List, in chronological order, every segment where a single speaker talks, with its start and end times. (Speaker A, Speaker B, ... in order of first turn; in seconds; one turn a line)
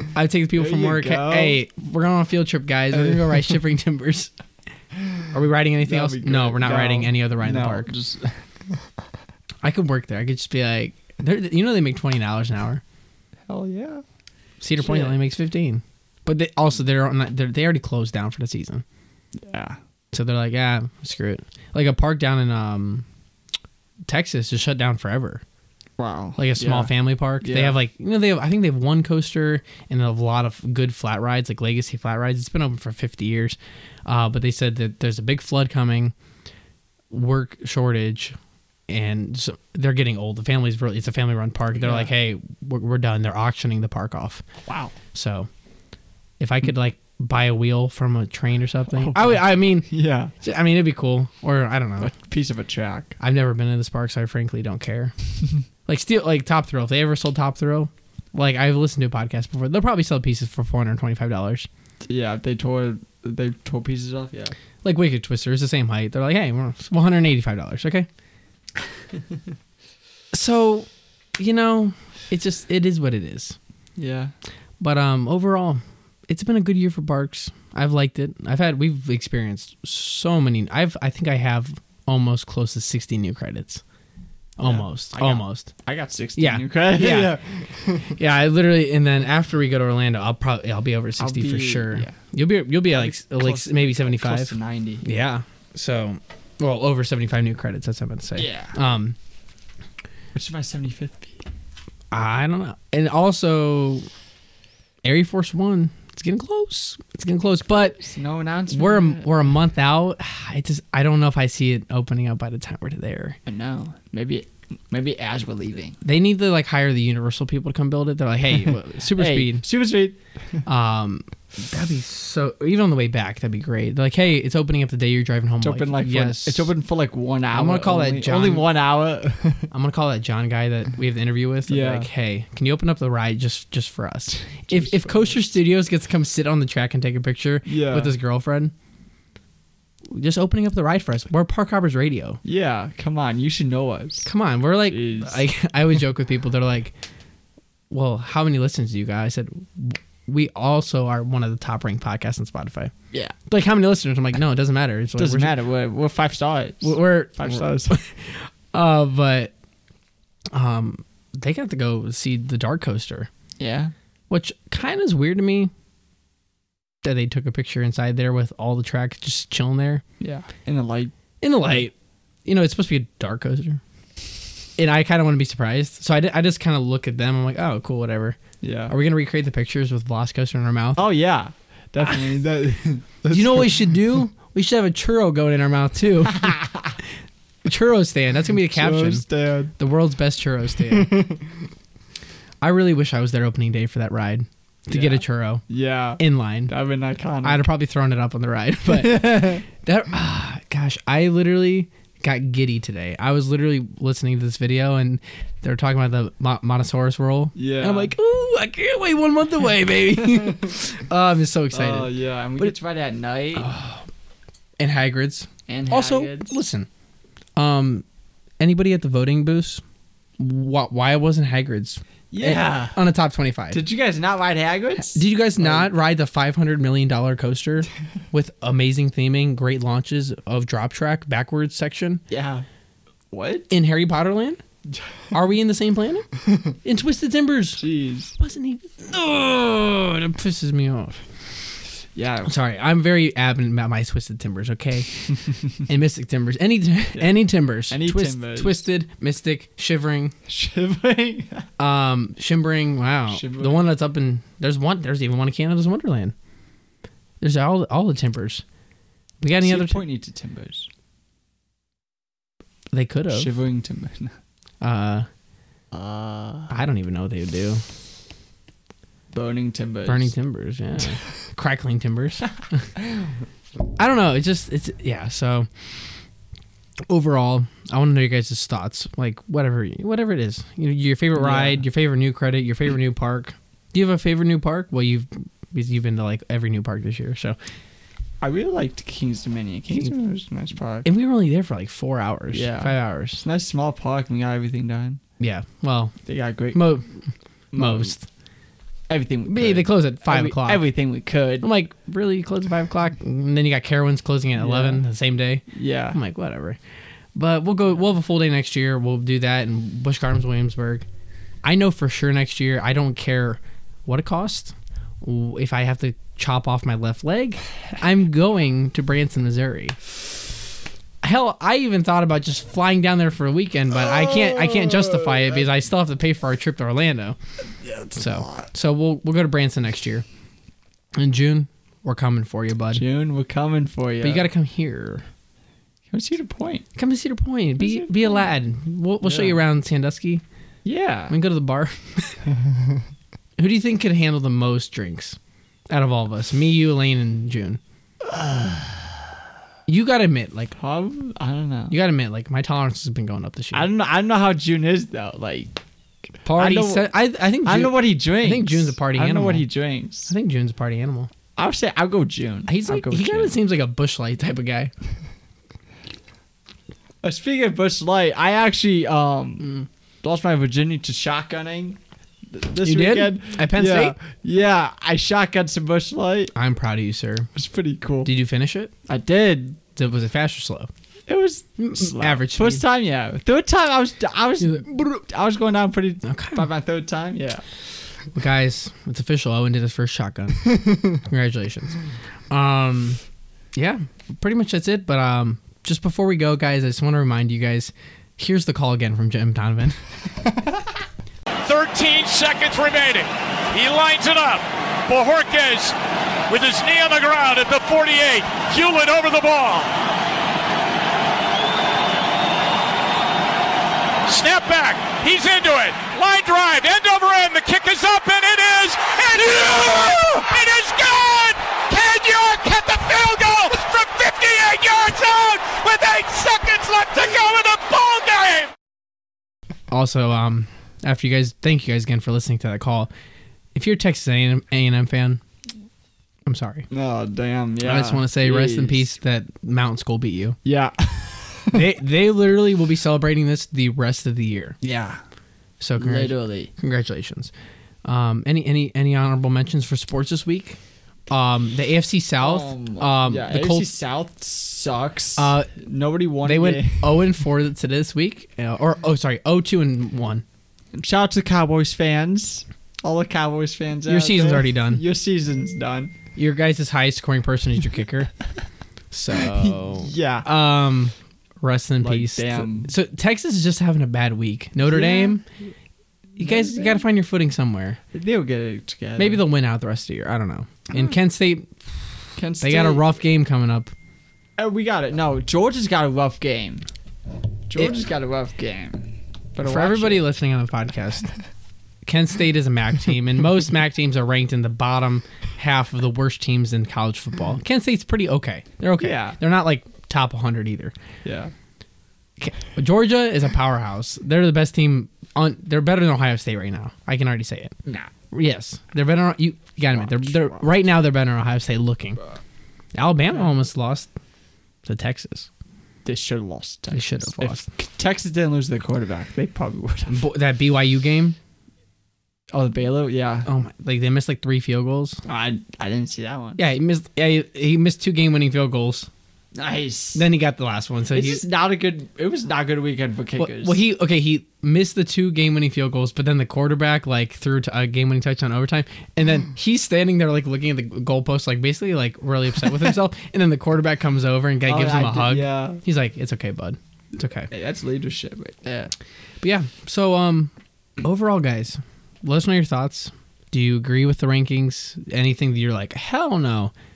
Speaker A: 0.1-4.3
Speaker B: 0.6-1.6
Speaker B: 2.9-3.4
Speaker A: 5.3-7.9
Speaker B: 5.8-8.4
Speaker A: 9.6-12.8
Speaker B: 13.5-14.0
Speaker A: 14.6-18.8
Speaker B: 14.8-15.2
Speaker B: 19.4-19.8
Speaker A: 20.1-23.1
Speaker A: 24.1-25.4
Speaker B: 26.0-27.8
Speaker A: 26.4-36.1
Speaker A: 37.1-38.4
Speaker A: 38.9-44.5
Speaker B: 41.8-42.1
Speaker B: 44.7-44.9
Speaker A: 45.1-45.5
Speaker A: 46.4-52.1
Speaker B: 49.0-50.3
Speaker B: 52.0-53.2
Speaker A: 53.2-55.1
Speaker A: 55.9-61.7
Speaker B: 62.1-64.5
Speaker A: 64.8-68.1
Speaker A: 70.3-70.9
Speaker A: 71.4-73.6
Speaker B: 74.0-74.3
Speaker A: 74.8-83.8
Speaker A: 84.6-85.7
Speaker B: 84.6-88.2
Speaker A: 86.4-87.4
Speaker A: 88.0-99.2
Speaker B: 91.2-92.2
Speaker B: 92.9-95.0
Speaker B: 98.4-98.8
Speaker B: 100.3-101.5
Speaker A: 102.1-104.1
Speaker A: 105.0-108.0
Speaker B: 107.7-109.5
Speaker A: 108.7-113.4
Speaker B: 113.5-116.0
Speaker A: 116.0-119.7
Speaker B: 119.2-120.6
Speaker A: 120.7-126.7
Speaker B: 125.6-129.7
Speaker A: 127.5-128.7
Speaker A: 129.7-138.7
Speaker B: 131.7-132.1
Speaker B: 134.6-135.4
Speaker B: 137.7-138.1
Speaker A: 140.1-142.4
Speaker B: 142.4-144.3
Speaker A: 144.2-146.9
Speaker B: 144.9-145.5
Speaker A: 147.9-152.9
Speaker A: 153.5-155.6
Speaker B: 155.2-158.0
Speaker A: 156.8-159.5
Speaker A: 160.5-163.3
Speaker B: 163.6-163.9
Speaker A: 164.3-165.7
Speaker A: 167.0-170.0
Speaker B: 170.2-171.1
Speaker A: 171.4-171.9
Speaker A: 172.4-173.8
Speaker A: 174.8-181.0
Speaker B: 178.6-178.9
Speaker B: 181.0-183.8
Speaker A: 183.3-186.6
Speaker B: 186.4-186.7
Speaker A: 187.7-189.3
Speaker B: 188.7-189.7
Speaker A: 189.8-191.2
Speaker B: 190.9-191.5
Speaker A: 192.6-195.6
Speaker B: 194.9-197.7
Speaker A: 196.2-196.7
Speaker A: 197.4-212.8
Speaker B: 198.9-199.6
Speaker B: 207.6-208.1
Speaker B: 210.1-210.7
Speaker B: 211.7-213.7
Speaker A: 213.6-214.1
Speaker A: 214.8-216.9
Speaker B: 215.7-216.6
Speaker A: 217.6-218.1
Speaker A: 218.6-219.8
Speaker A: 220.4-223.8
Speaker B: 222.3-223.0
Speaker B: 223.7-225.9
Speaker A: 225.0-232.2
Speaker B: 232.3-232.7
Speaker B: 233.3-233.7
Speaker A: 233.7-234.6
Speaker A: 235.3-236.3
Speaker A: 236.8-241.3
Speaker B: 237.8-238.3
Speaker B: 242.2-242.5
Speaker A: 242.5-250.3
Speaker B: 247.9-248.8
Speaker B: 250.5-251.7
Speaker A: 251.8-256.3
Speaker B: 253.3-253.9
Speaker A: 257.4-258.6
Speaker A: 259.4-260.0
Speaker B: 259.6-260.9
Speaker A: 262.9-263.5
Speaker B: 263.3-264.4
Speaker A: 264.8-265.3
Speaker B: 265.9-266.7
Speaker A: 266.7-267.8
Speaker B: 269.3-270.3
Speaker A: 270.1-272.9
Speaker B: 273.0-273.3
Speaker A: 274.0-275.7
Speaker A: 277.1-287.6
Speaker B: 281.4-281.8
Speaker B: 288.4-291.1
Speaker A: 291.0-293.4
Speaker B: 292.5-295.2
Speaker A: 295.4-296.2
Speaker B: 296.3-296.9
Speaker A: 296.7-297.2
Speaker B: 297.7-298.1
Speaker A: 297.8-298.3
Speaker B: 299.1-301.7
Speaker A: 299.5-300.9
Speaker A: 301.6-306.8
Speaker B: 304.6-305.1
Speaker B: 305.7-306.2
Speaker A: 307.4-311.1
Speaker A: 311.6-320.0
Speaker A: 321.2-327.4
Speaker B: 323.9-325.7
Speaker B: 327.8-328.7
Speaker A: 328.1-330.2
Speaker A: 331.2-333.0
Speaker B: 332.9-334.5
Speaker A: 334.2-335.2
Speaker B: 336.1-336.9
Speaker A: 336.9-340.4
Speaker B: 337.8-338.5
Speaker B: 339.2-339.6
Speaker B: 340.9-341.4
Speaker A: 341.3-342.4
Speaker B: 342.5-343.0
Speaker A: 343.6-345.4
Speaker A: 345.9-347.8
Speaker B: 348.2-349.3
Speaker A: 349.9-350.8
Speaker B: 350.8-352.0
Speaker A: 351.9-353.9
Speaker B: 353.7-355.8
Speaker A: 356.4-359.7
Speaker B: 356.6-357.1
Speaker B: 357.6-360.3
Speaker A: 360.3-361.3
Speaker B: 361.6-363.5
Speaker A: 362.7-364.9
Speaker B: 367.2-376.5
Speaker A: 369.6-369.9
Speaker A: 372.8-374.1
Speaker A: 376.6-377.5
Speaker B: 377.6-378.3
Speaker A: 378.2-378.9
Speaker B: 379.1-379.8
Speaker A: 380.0-380.9
Speaker B: 381.3-387.6
Speaker A: 381.8-382.8
Speaker A: 384.6-385.3
Speaker A: 386.2-386.7
Speaker A: 388.3-392.0
Speaker A: 392.5-393.2
Speaker A: 393.8-400.0
Speaker C: 401.6-405.9
Speaker C: 406.5-409.9
Speaker C: 414.3-428.7
Speaker A: 429.9-433.1
Speaker A: 433.8-435.4
Speaker A: 436.5-436.9
Speaker B: 436.9-439.2
Speaker A: 437.8-440.6
Speaker B: 440.6-441.9
Speaker A: 441.7-444.8
Speaker B: 444.8-445.2
Speaker A: 445.8-447.5
Speaker B: 446.0-446.7
Speaker A: 448.1-450.8
Speaker A: 451.3-453.9
Speaker B: 452.4-457.3
Speaker A: 455.4-455.7
Speaker A: 456.4-460.4
Speaker B: 460.9-466.1
Speaker A: 464.1-465.0
Speaker A: 466.4-468.3
Speaker A: 469.1-475.4
Speaker B: 469.3-470.5
Speaker B: 472.0-472.9
Speaker B: 474.9-475.4
Speaker A: 476.4-478.0
Speaker B: 476.4-477.1
Speaker B: 478.1-479.4
Speaker A: 479.2-482.1
Speaker B: 482.4-483.1
Speaker A: 482.6-483.9
Speaker B: 484.6-486.9
Speaker B: 487.7-490.3
Speaker A: 489.6-491.3
Speaker A: 492.1-500.9
Speaker B: 499.0-499.4
Speaker B: 501.2-501.5
Speaker A: 502.4-507.8
Speaker B: 507.9-508.1
Speaker A: 508.3-512.2
Speaker B: 509.9-510.7
Speaker A: 513.0-514.1
Speaker A: 514.9-515.5
Speaker B: 516.0-520.3
Speaker A: 516.9-517.7
Speaker A: 520.1-521.4
Speaker B: 522.5-523.5
Speaker A: 523.5-525.2
Speaker B: 525.3-526.6
Speaker A: 526.6-529.1
Speaker B: 529.5-530.3
Speaker A: 530.1-531.4
Speaker B: 531.1-533.8
Speaker A: 533.4-547.5
Speaker B: 544.7-545.8
Speaker B: 547.5-548.9
Speaker A: 549.4-556.7